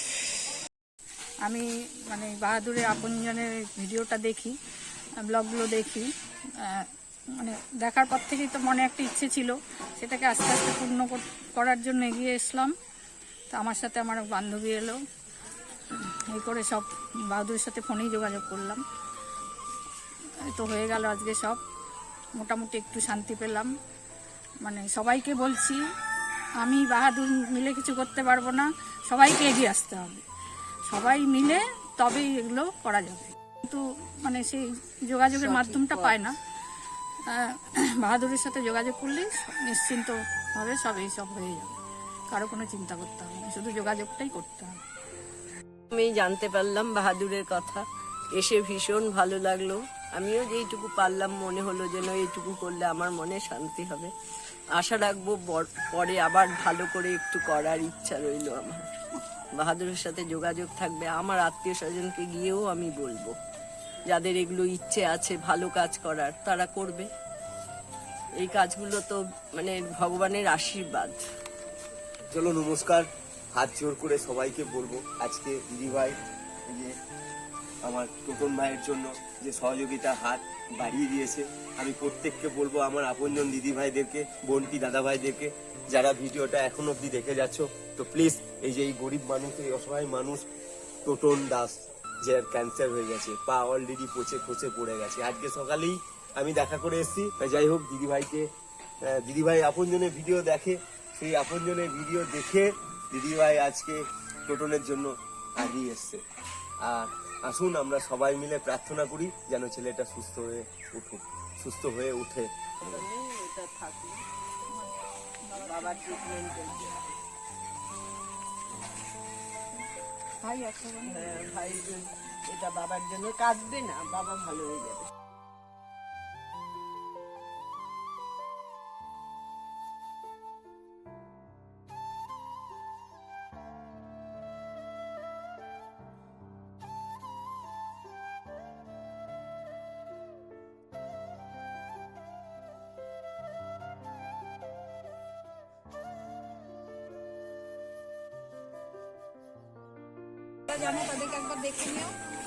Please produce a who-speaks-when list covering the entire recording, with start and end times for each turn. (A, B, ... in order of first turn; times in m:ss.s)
0:01.5-0:04.6 A
0:05.2-0:06.1 A
0:06.6-0:12.7 A
0:13.5-0:15.0 A
0:15.9-0:18.8 A
0:20.5-0:21.6 A
0:22.4-0:23.7 A
0:24.6-0:25.8 A
0:26.6-0:30.2 A
0:30.9-0:36.4 A
0:35.4-0:36.2 B
0:37.3-0:41.8 A
0:42.3-0:44.8 A
0:45.9-0:54.1 B
0:54.8-0:59.0 B
0:59.6-1:03.4 B
1:04.1-1:07.1 B
1:08.4-1:11.2 B
1:12.3-1:17.0 C
1:17.8-1:30.4 C
1:31.0-1:38.5 C
1:39.0-1:46.2 C
1:46.8-1:52.5 C
1:52.8-1:54.2 B
1:55.4-1:56.6 A
1:55.7-1:57.1 B
2:00.4-2:01.3 A
2:01.1-2:05.1 B
2:30.7-2:32.2 A